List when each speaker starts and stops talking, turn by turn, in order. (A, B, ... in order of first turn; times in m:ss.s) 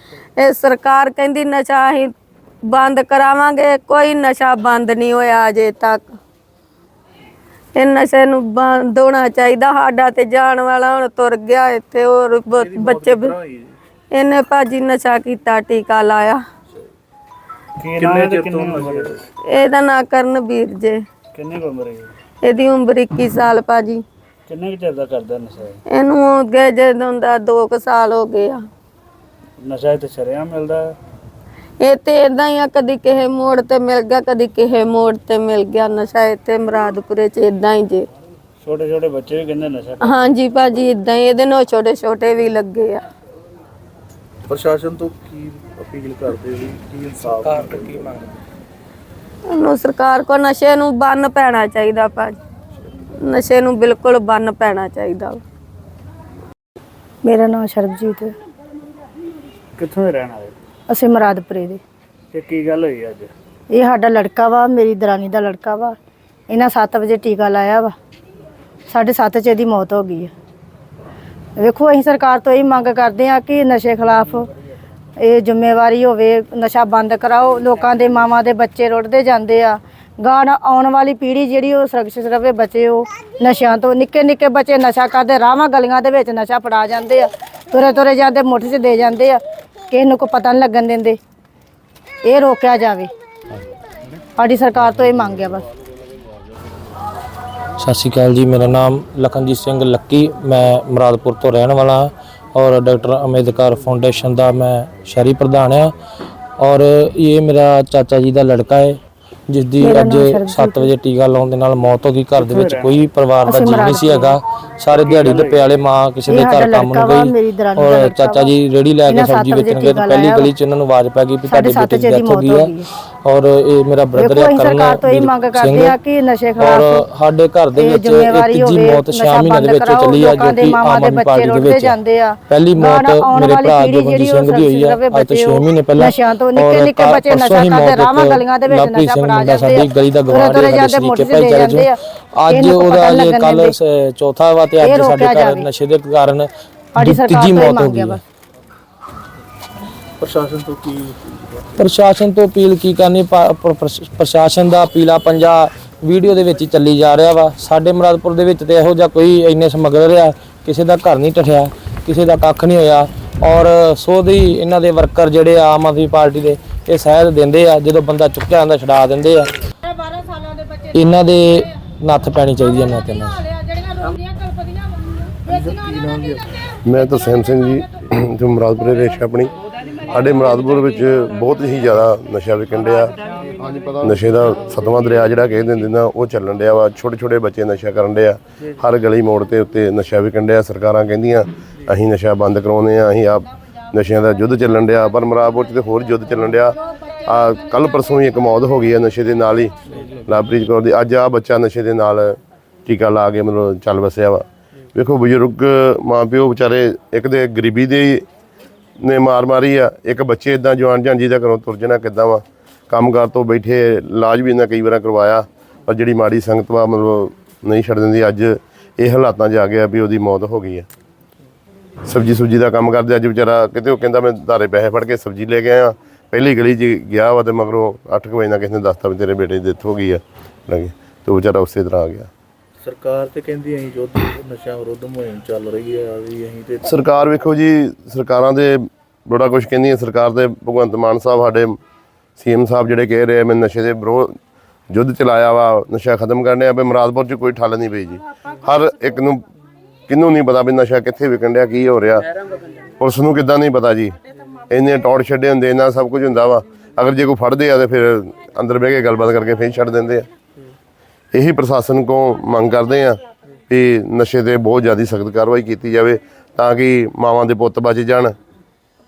0:00.4-0:02.1 A
0:02.7-0:06.0 A
0:07.8-0:13.3 A
0:12.5-0:13.8 B
0:14.1-0:16.4 A
0:17.8-0:19.2 C
0:18.0-0:19.2 B
0:19.5-0:21.0 A
0:21.3-0:22.1 C
0:22.4-0:24.0 A
0:24.5-0:25.8 C
0:25.9-0:28.6 A
0:29.6-0:31.0 C
0:31.8-0:38.0 A
0:38.6-0:40.1 C
0:40.0-0:43.0 A
0:44.5-0:48.1 B
0:47.4-0:48.2 D
0:49.5-0:52.4 A
0:53.2-0:55.4 A
0:57.2-0:58.3 E
0:59.8-1:00.5 C
1:00.9-1:01.8 E
1:02.3-1:03.3 C
1:03.7-1:05.9 E
1:06.5-1:07.9 E
1:08.9-1:10.3 E
1:11.6-1:14.5 E
1:15.2-1:31.2 E
1:32.2-1:33.1 E
1:34.4-1:35.6 E
1:37.8-1:45.9 D
1:46.6-2:02.7 D
1:49.8-1:50.9 E
1:52.4-1:52.9 C
1:53.4-1:54.4 E
1:54.9-1:55.6 C
1:56.3-1:58.5 E
1:59.0-2:00.5 E
2:01.5-2:02.9 E
2:03.2-2:06.0 D
2:04.1-2:07.0 E
2:06.6-2:12.0 D
2:07.7-2:23.7 E
2:12.5-2:28.2 D
2:24.8-2:25.7 E
2:26.9-2:28.2 E
2:30.2-2:31.7 B
2:31.8-2:49.5 D
2:50.9-2:53.5 D
2:55.4-2:56.4 B
2:56.8-2:59.5 F
3:00.1-3:03.1 F
3:03.9-3:28.2 F
3:29.0-3:40.9 F
3:42.1-3:52.3 F
3:52.8-3:56.9 B
3:56.8-4:01.8 F
4:02.4-4:04.3 F
4:04.9-4:09.4 F
4:10.1-4:12.3 F
4:13.0-4:14.2 F
4:14.7-4:20.3 F
4:21.3-4:28.3 F